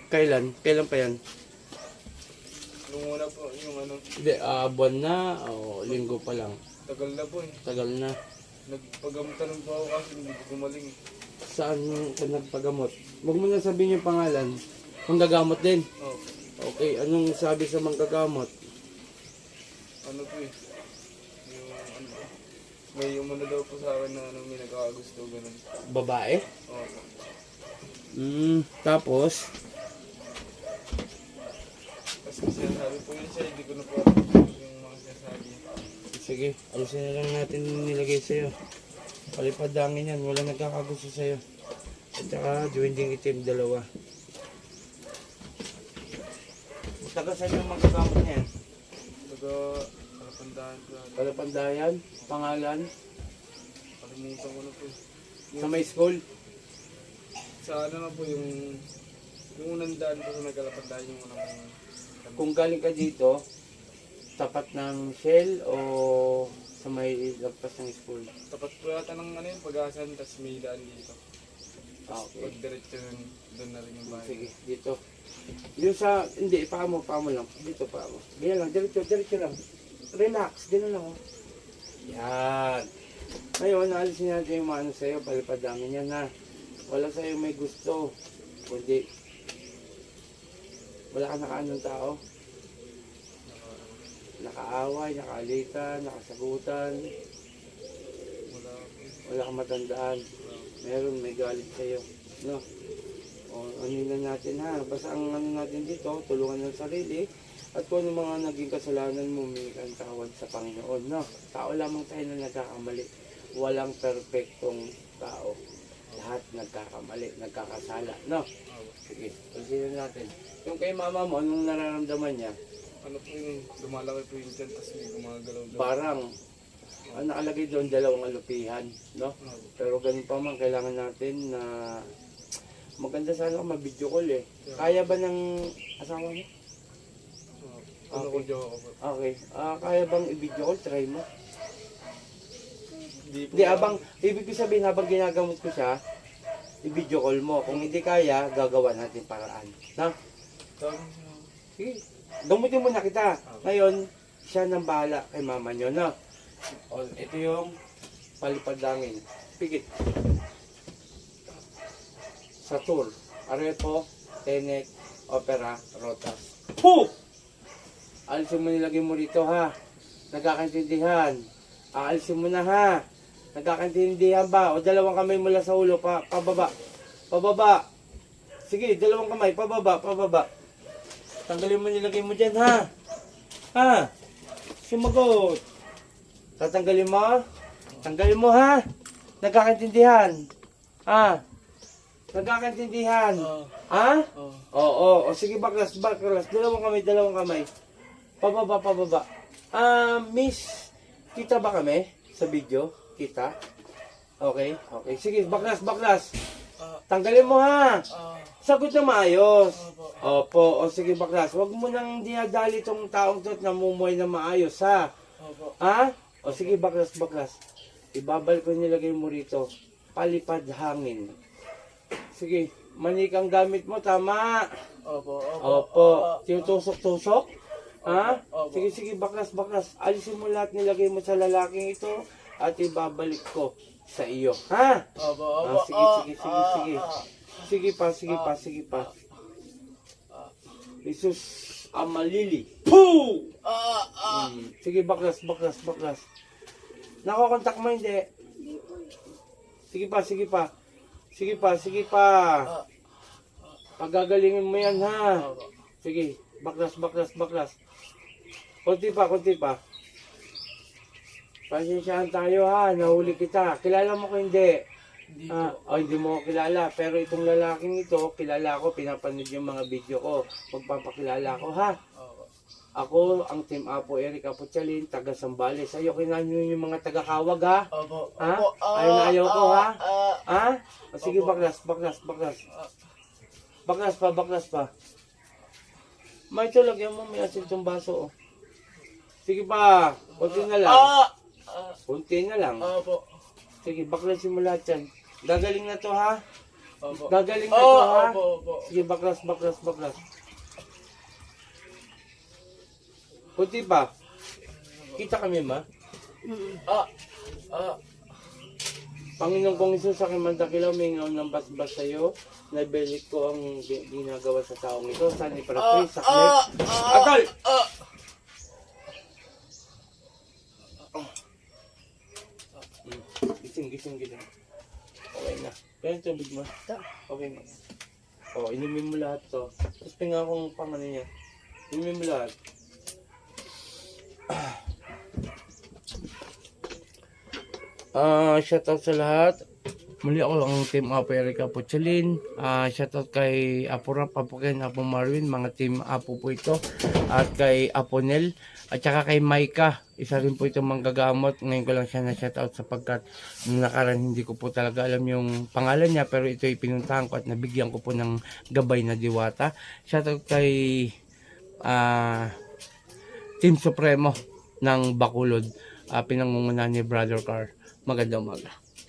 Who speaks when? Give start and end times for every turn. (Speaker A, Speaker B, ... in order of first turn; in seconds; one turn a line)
Speaker A: 0.1-1.2
Speaker B: 2.9-4.1
Speaker A: 4.2-6.6
Speaker B: 6.9-7.6
Speaker A: 7.7-8.2
Speaker B: 8.7-10.9
Speaker A: 11.4-15.9
Speaker B: 16.0-16.3
Speaker A: 16.6-18.5
Speaker B: 20.0-20.6
Speaker B: 21.4-22.3
Speaker B: 22.9-25.6
Speaker A: 25.9-26.4
Speaker B: 26.7-27.1
Speaker A: 28.1-29.5
Speaker B: 32.2-35.6
Speaker A: 36.1-38.5
Speaker A: 39.3-41.4
Speaker A: 42.2-43.9
Speaker A: 47.0-48.5
Speaker B: 49.3-51.4
Speaker A: 51.2-52.9
Speaker B: 54.0-55.0
Speaker B: 55.5-55.8
Speaker A: 55.6-56.2
Speaker B: 57.6-58.9
Speaker B: 59.5-62.5
Speaker A: 62.4-63.4
Speaker A: 64.4-68.3
Speaker B: 68.5-71.2
Speaker A: 72.1-72.5
Speaker B: 72.2-74.5
Speaker A: 74.1-75.0
Speaker A: 75.8-79.6
Speaker A: 80.1-81.2
Speaker A: 82.1-82.9
Speaker A: 83.6-86.3
Speaker A: 86.9-88.1
Speaker A: 88.7-89.1
Speaker A: 91.1-92.2
Speaker B: 93.5-94.0
Speaker A: 94.4-97.0
Speaker B: 98.5-99.3
Speaker A: 99.3-100.2
Speaker B: 100.4-100.8
Speaker A: 100.8-102.6
Speaker A: 103.5-115.6
Speaker A: 116.2-118.5
Speaker B: 118.7-119.0
Speaker A: 119.1-122.6
Speaker B: 123.0-125.9
Speaker A: 125.7-126.3
Speaker A: 127.1-132.1
Speaker B: 129.4-129.7
Speaker A: 133.0-136.5
Speaker B: 134.6-135.1
Speaker B: 137.6-139.0
Speaker A: 138.1-138.5
Speaker A: 139.0-141.3
Speaker B: 143.1-144.1
Speaker A: 143.5-146.0
Speaker A: 146.8-150.2
Speaker B: 147.7-147.9
Speaker B: 150.8-151.5
Speaker A: 151.8-156.2
Speaker A: 156.9-157.8
Speaker A: 158.4-159.9
Speaker A: 162.6-167.1
Speaker A: 168.3-169.7
Speaker A: 170.3-171.4
Speaker A: 171.9-173.0
Speaker A: 173.5-176.7
Speaker A: 177.3-177.8
Speaker A: 178.7-180.5
Speaker A: 181.5-182.9
Speaker A: 183.7-184.1
Speaker A: 184.8-185.6
Speaker A: 186.6-187.4
Speaker A: 188.0-188.8
Speaker A: 189.4-190.4
Speaker A: 191.1-191.4
Speaker A: 192.3-197.7
Speaker B: 193.4-193.8
Speaker B: 194.4-194.7
Speaker A: 198.4-203.5
Speaker A: 204.4-206.3
Speaker A: 207.1-208.0
Speaker B: 208.1-208.5
Speaker A: 208.6-215.1
Speaker B: 209.8-210.2
Speaker B: 215.4-215.8
Speaker A: 215.8-217.6
Speaker B: 216.5-216.8
Speaker A: 218.2-221.3
Speaker A: 222.3-224.7
Speaker B: 225.1-226.5
Speaker A: 225.6-227.5
Speaker A: 228.0-235.1
Speaker B: 228.1-228.8
Speaker B: 235.2-237.3
Speaker A: 235.6-239.1
Speaker B: 238.3-239.1
Speaker A: 241.0-243.5
Speaker B: 243.7-244.4
Speaker A: 244.3-246.2
Speaker A: 247.2-248.3
Speaker A: 249.9-250.7
Speaker A: 251.3-252.7
Speaker A: 254.0-255.5
Speaker B: 255.4-255.7
Speaker A: 256.0-257.8
Speaker A: 258.9-259.8
Speaker A: 261.7-264.8
Speaker B: 263.0-263.4
Speaker B: 265.3-265.8
Speaker A: 265.5-272.0
Speaker B: 272.2-272.5
Speaker A: 273.0-282.6
Speaker B: 277.9-280.4
Speaker B: 281.2-281.7
Speaker A: 283.9-284.9
Speaker A: 286.5-288.3
Speaker A: 289.5-291.1
Speaker B: 290.4-292.0
Speaker A: 292.1-292.9
Speaker B: 292.8-293.3
Speaker A: 293.8-296.4
Speaker B: 297.0-298.9
Speaker A: 297.1-300.2
Speaker A: 303.6-304.1
Speaker B: 304.7-305.2
Speaker A: 305.1-305.9
Speaker B: 307.7-308.0
Speaker A: 309.4-317.6
Speaker B: 315.8-317.1
Speaker A: 323.0-324.5
Speaker A: 325.3-327.7
Speaker A: 328.6-331.3
Speaker A: 331.9-332.5
Speaker A: 334.5-334.8
Speaker A: 338.2-339.6
Speaker A: 340.2-361.1
Speaker A: 361.8-362.6
Speaker A: 363.6-368.8